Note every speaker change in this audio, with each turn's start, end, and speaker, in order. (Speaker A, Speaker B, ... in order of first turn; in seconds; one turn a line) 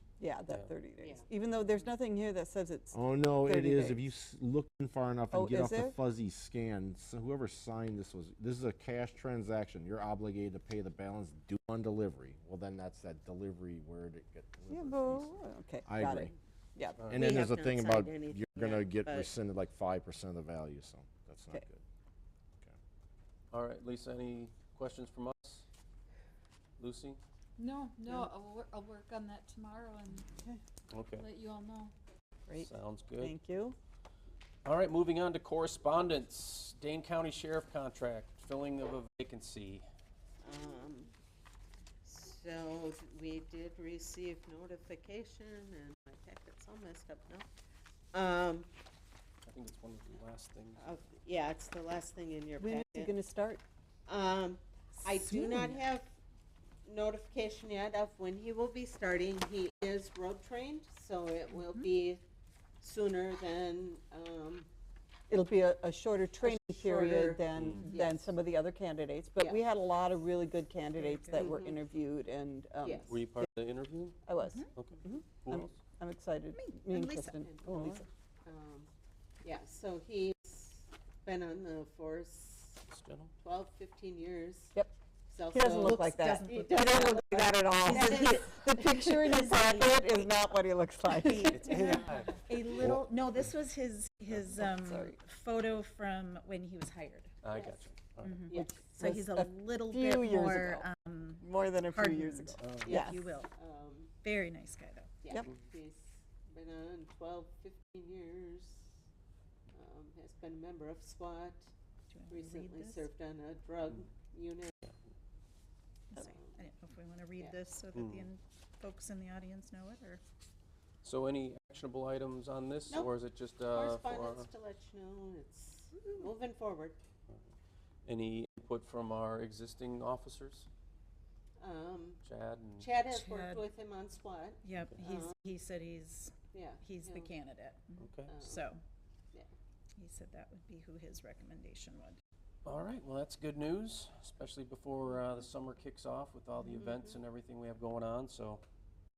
Speaker A: 0.2-4.1
Speaker B: 1.0-1.3
Speaker C: 2.9-16.3
Speaker A: 5.3-6.0
Speaker A: 14.7-17.1
Speaker D: 17.0-17.3
Speaker C: 17.1-21.8
Speaker B: 17.1-19.4
Speaker D: 23.5-25.7
Speaker D: 26.8-27.2
Speaker E: 27.6-30.3
Speaker D: 30.9-31.2
Speaker E: 31.2-31.9
Speaker A: 32.5-33.8
Speaker D: 32.6-33.4
Speaker D: 34.6-39.9
Speaker B: 40.4-41.1
Speaker B: 42.0-47.5
Speaker B: 48.1-48.7
Speaker D: 49.5-50.9
Speaker B: 50.8-53.1
Speaker A: 52.6-53.6
Speaker B: 54.1-56.2
Speaker A: 55.2-55.7
Speaker B: 56.9-62.2
Speaker B: 62.8-64.7
Speaker A: 65.3-73.5
Speaker B: 66.4-68.3
Speaker D: 67.6-67.9
Speaker F: 67.8-68.0
Speaker F: 71.0-71.6
Speaker B: 71.3-71.8
Speaker B: 72.8-73.2
Speaker D: 73.1-74.2
Speaker A: 74.3-78.0
Speaker F: 74.5-74.7
Speaker D: 74.8-75.8
Speaker F: 76.5-77.4
Speaker B: 77.4-78.9
Speaker D: 77.7-78.0
Speaker B: 79.4-82.8
Speaker D: 82.9-83.3
Speaker B: 83.4-84.8
Speaker B: 85.3-90.0
Speaker A: 85.5-92.1
Speaker F: 86.1-87.3
Speaker F: 87.8-88.4
Speaker F: 91.2-97.3
Speaker D: 91.3-93.0
Speaker A: 94.5-95.2
Speaker D: 97.4-98.4
Speaker B: 97.5-97.8
Speaker F: 98.2-103.5
Speaker B: 98.5-98.8
Speaker A: 98.5-103.2
Speaker D: 102.6-102.9
Speaker B: 102.8-104.2
Speaker F: 104.2-105.2
Speaker B: 105.2-108.9
Speaker B: 109.7-111.7
Speaker F: 112.1-113.1
Speaker B: 112.3-114.7
Speaker F: 116.1-120.2
Speaker B: 116.2-116.6
Speaker D: 118.0-118.3
Speaker D: 121.0-124.5
Speaker B: 123.7-127.0
Speaker D: 128.1-130.7
Speaker B: 131.6-132.2
Speaker D: 132.2-133.0
Speaker B: 132.8-135.4
Speaker F: 133.1-133.7
Speaker F: 134.6-138.8
Speaker B: 136.5-137.3
Speaker D: 138.0-138.3
Speaker B: 138.3-138.7
Speaker F: 140.0-142.2
Speaker D: 142.7-148.6
Speaker B: 146.8-147.2